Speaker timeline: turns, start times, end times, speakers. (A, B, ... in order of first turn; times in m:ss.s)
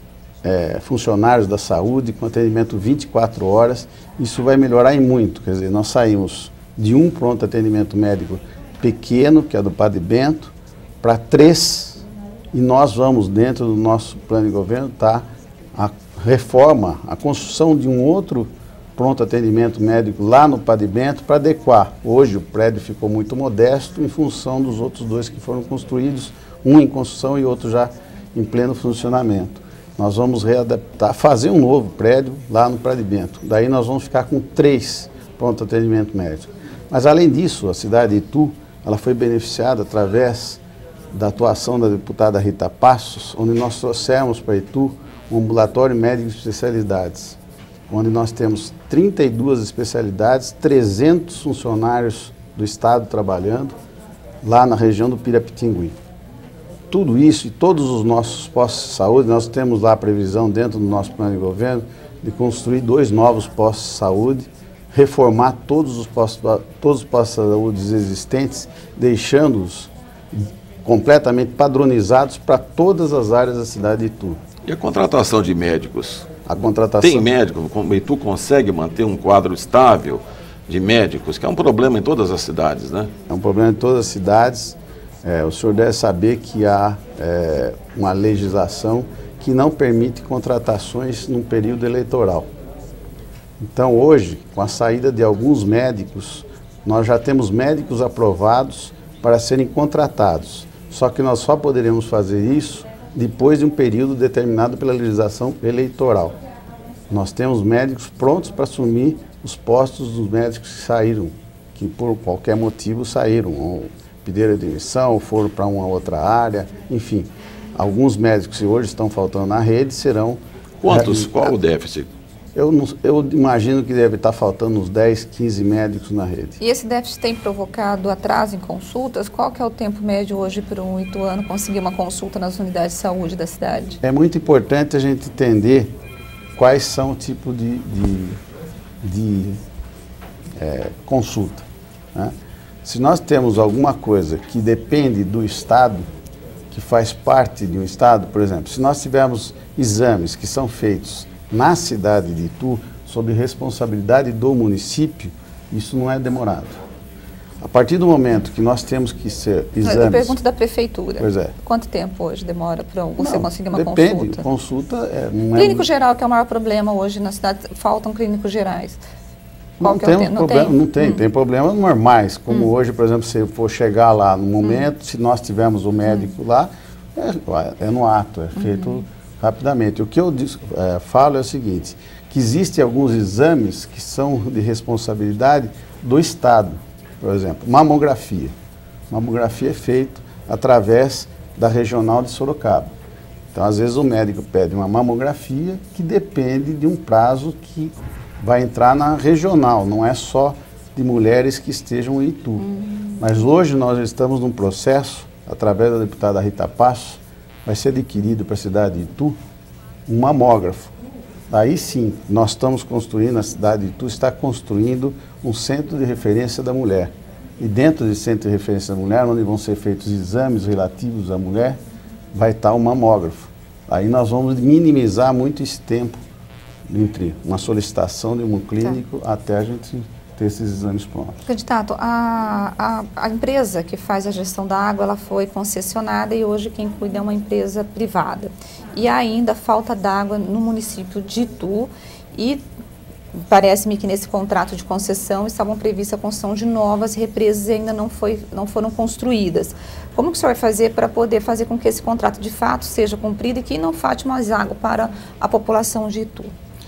0:00.4-0:40.6 A
0:41.1-0:47.4 A
0:47.9-0:53.7 A
0:54.4-0:55.9 A
0:56.9-1:14.4 A
1:14.6-1:16.3 B
1:16.5-1:17.3 A
1:17.0-1:23.1 B
1:23.3-1:32.5 A
1:33.6-1:46.4 A
1:47.1-2:01.5 A
2:00.8-2:02.1 B
2:02.6-2:06.6 A
2:06.6-2:14.0 C
2:14.0-2:15.9 A
2:16.6-2:18.4 A
2:19.0-2:19.6 A
2:20.6-2:22.3 A
2:22.8-2:26.1 A
2:26.7-2:36.8 A
2:37.6-2:40.4 A
2:39.8-2:44.5 C
2:41.2-2:41.5 A
2:43.2-2:45.9 A
2:45.6-2:49.0 C
2:49.8-3:08.5 A
2:49.8-2:51.2 C
2:58.6-2:59.0 C
3:09.1-3:12.9 A
3:13.5-3:22.7 A
3:22.7-3:23.2 C
3:23.2-3:29.4 A
3:30.1-3:30.9 A
3:31.5-3:41.8 A
3:42.3-3:46.2 A
3:46.9-3:51.4 A
3:51.4-4:02.6 C
4:03.4-4:16.5 C